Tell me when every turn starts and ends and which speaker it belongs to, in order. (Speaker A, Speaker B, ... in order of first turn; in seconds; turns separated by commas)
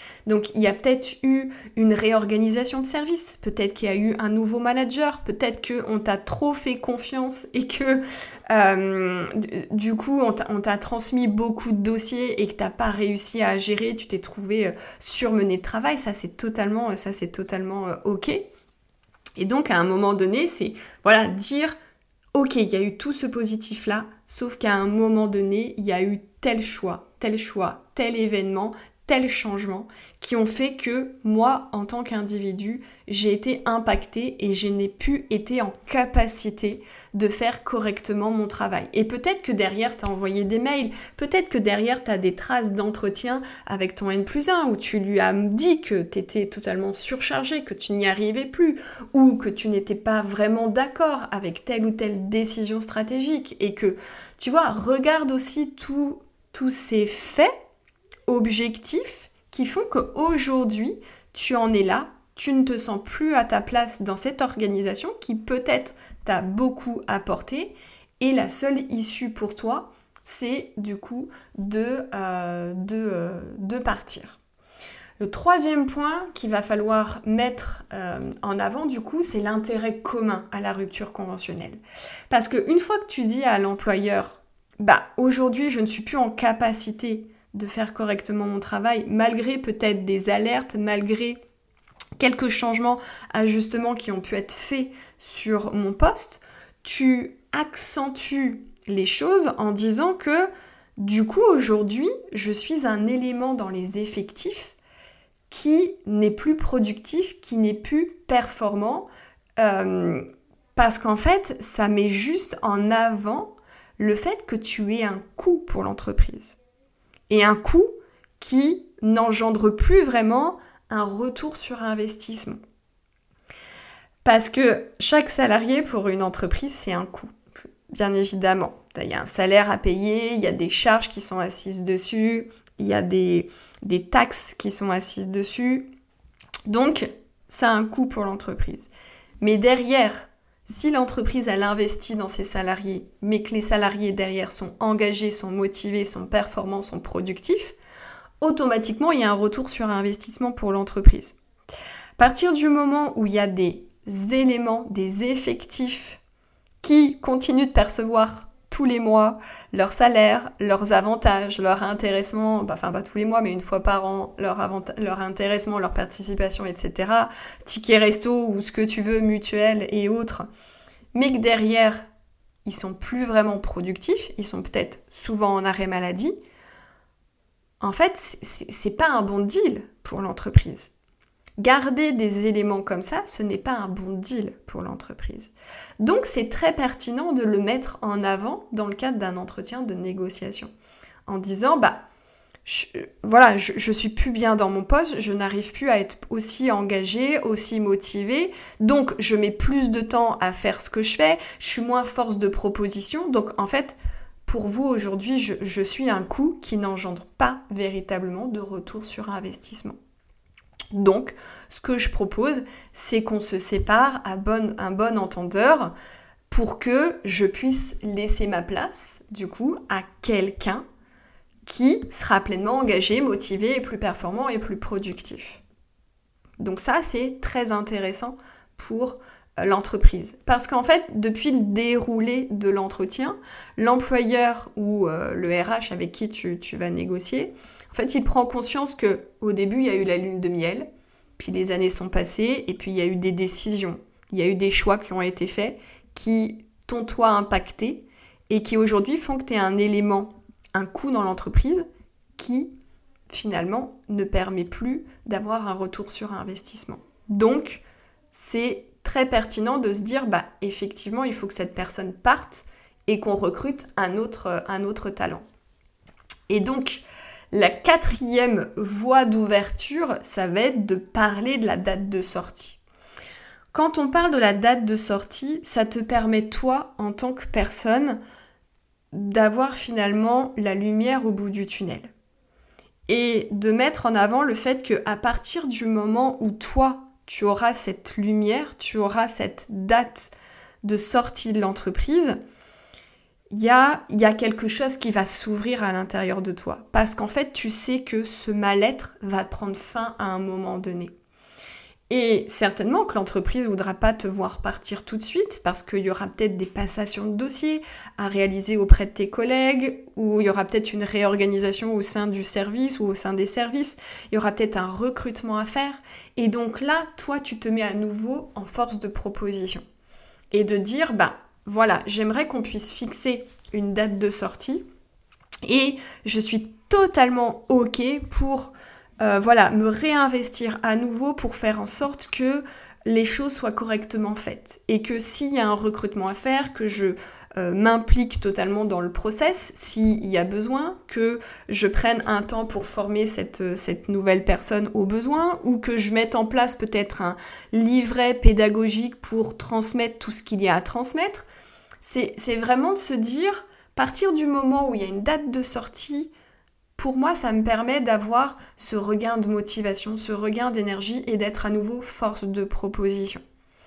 Speaker A: 0.3-18.5, Speaker A: 19.4-21.8, Speaker A: 22.4-57.5, Speaker A: 58.3-74.4, Speaker A: 75.2-81.8, Speaker A: 82.3-91.4, Speaker A: 92.2-104.8, Speaker A: 105.5-110.2, Speaker A: 110.8-116.6, Speaker A: 117.3-122.6, Speaker A: 124.2-127.3, Speaker A: 127.9-135.9, Speaker A: 136.7-138.9, Speaker A: 139.4-147.8, Speaker A: 148.4-151.4, Speaker A: 152.2-156.2, Speaker A: 156.8-170.5, Speaker A: 171.1-172.1, Speaker A: 172.7-176.3, Speaker A: 177.8-180.9, Speaker A: 181.6-190.7, Speaker A: 191.3-192.1, Speaker A: 192.7-210.0, Speaker A: 210.9-215.9, Speaker A: 216.5-220.8, Speaker A: 221.7-225.6, Speaker A: 226.6-240.9, Speaker A: 241.4-251.8, Speaker A: 252.4-252.7, Speaker A: 253.3-265.4, Speaker A: 266.5-272.8, Speaker A: 273.7-278.2, Speaker A: 279.1-282.1, Speaker A: 283.1-290.3, Speaker A: 290.8-292.4, Speaker A: 293.5-301.1, Speaker A: 302.1-319.8, Speaker A: 320.5-324.8, Speaker A: 325.6-351.5, Speaker A: 352.0-356.3, Speaker A: 357.0-363.4